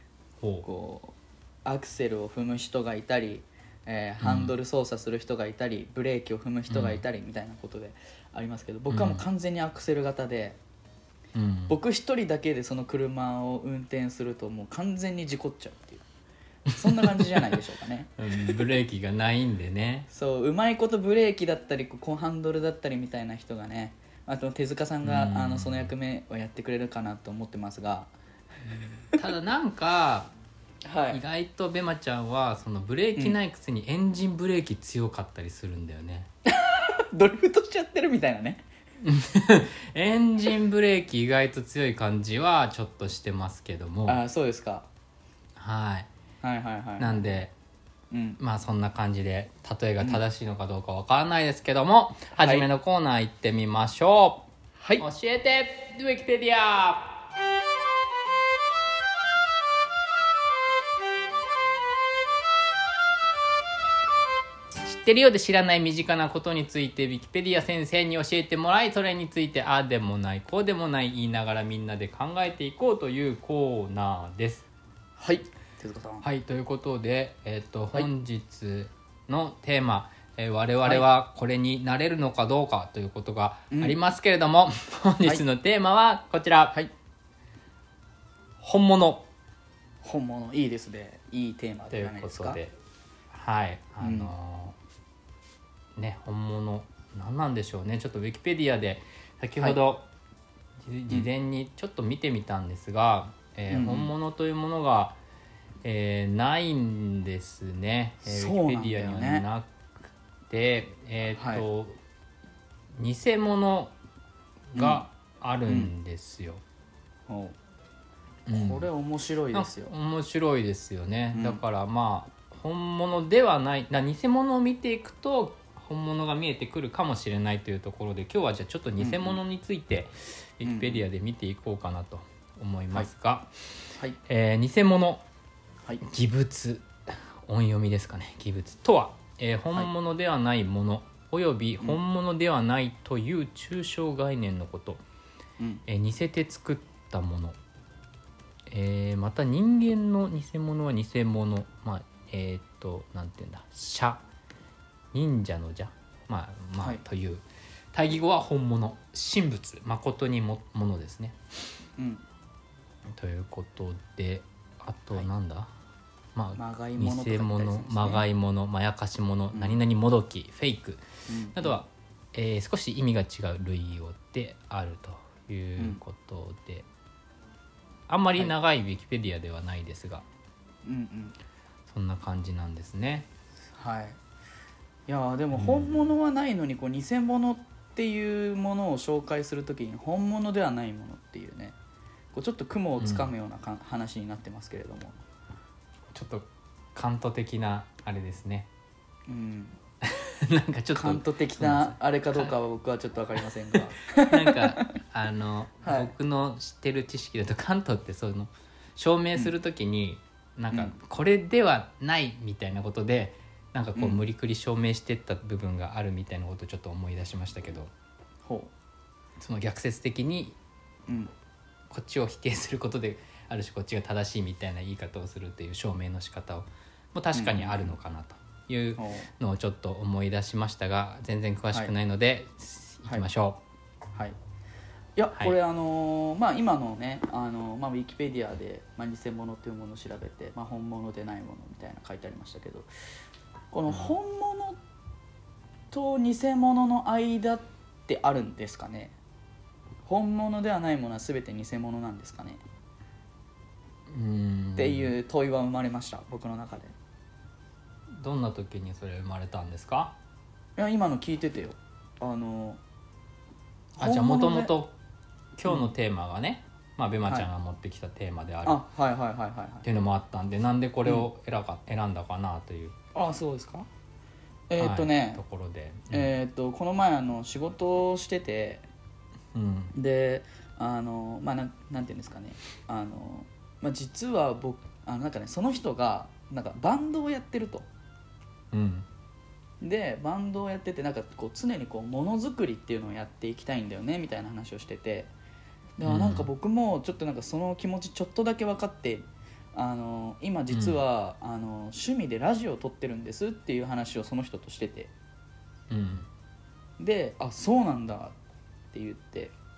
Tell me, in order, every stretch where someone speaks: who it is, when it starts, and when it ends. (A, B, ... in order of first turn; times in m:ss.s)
0:00.4-0:00.7 A
0:00.6-0:10.6 B
0:04.2-0:04.5 A
0:06.7-0:07.0 A
0:08.9-0:09.2 A
0:11.3-0:11.8 A
0:11.7-0:16.0 B
0:16.7-0:17.4 A
0:16.7-0:18.1 B
0:18.2-0:20.1 A
0:20.1-0:28.1 B
0:25.0-0:25.9 A
0:29.1-0:30.3 A
0:30.8-0:31.2 B
0:31.1-0:36.3 A
0:36.5-0:38.6 B
0:39.0-0:44.2 A
0:44.1-0:44.9 B
0:45.6-0:46.1 A
0:46.4-0:47.4 B
0:47.0-0:47.5 A
0:48.1-0:48.4 B
0:48.4-0:54.4 A
0:52.4-0:52.7 B
0:54.8-0:55.0 B
0:55.0-0:57.3 A
1:04.8-1:14.6 A
1:15.2-1:16.2 B
1:16.2-1:26.8 A
1:23.7-1:24.0 B
1:28.6-1:29.3 A
1:30.0-1:32.6 B
1:31.9-1:32.8 A
1:33.3-1:34.8 A
1:34.0-1:34.3 B
1:36.0-1:40.1 A
1:40.8-1:45.2 A
1:43.7-1:44.1 B
1:45.8-1:52.0 A
1:48.2-1:49.5 B
1:51.3-1:51.6 B
1:53.0-1:53.9 A
1:54.7-1:56.6 A
1:54.7-1:55.1 B
1:55.7-1:55.9 B
1:57.3-1:57.6 B
1:58.5-1:58.9 A
1:58.5-1:59.9 B
1:59.5-2:13.7 A
2:01.3-2:01.6 B
2:09.0-2:09.4 B
2:10.6-2:11.1 B
2:14.3-2:15.2 A
2:16.0-2:25.0 A
2:25.9-2:27.6 A
2:28.7-2:34.2 A
2:35.1-2:41.4 A
2:42.0-2:42.2 B
2:43.1-2:45.7 A
2:46.4-2:56.9 A
2:46.6-2:48.2 B
2:49.5-2:49.8 B
2:51.3-2:51.8 B
2:58.1-3:00.2 A
3:00.8-3:01.4 B
3:01.9-3:03.3 A
3:03.8-3:04.2 B
3:05.1-3:11.8 B
3:05.5-3:06.1 A
3:12.3-3:15.2 B
3:13.0-3:13.4 A
3:16.1-3:18.7 A
3:19.3-3:19.8 B
3:20.0-3:22.5 A
3:20.9-3:24.9 B
3:23.7-3:37.9 A
3:25.8-3:26.1 B
3:34.0-3:34.2 B
3:38.4-3:38.7 B
3:39.4-3:40.6 A
3:41.9-3:53.6 A
3:47.3-3:47.9 B
3:49.0-3:49.3 B
3:55.2-4:02.9 B
4:03.7-4:04.8 B
4:05.9-4:09.1 B
4:10.0-4:12.6 B
4:14.1-4:15.1 A
4:14.8-4:16.9 B
4:18.1-4:20.2 A
4:20.8-4:22.8 B
4:24.0-4:24.7 B
4:24.0-4:25.0 A
4:25.6-4:28.8 A
4:28.6-4:29.9 B
4:29.8-4:33.0 A
4:33.2-4:33.9 B
4:34.7-4:35.4 B
4:34.8-4:36.3 A
4:36.1-4:38.8 B
4:39.5-4:39.9 A
4:39.9-4:47.9 B
4:48.7-4:49.1 A
4:49.8-4:55.3 B
4:56.0-5:05.1 B
4:56.0-4:56.5 A
5:00.7-5:01.0 A
5:05.9-5:06.3 A
5:07.0-5:08.4 B
5:08.9-5:09.5 B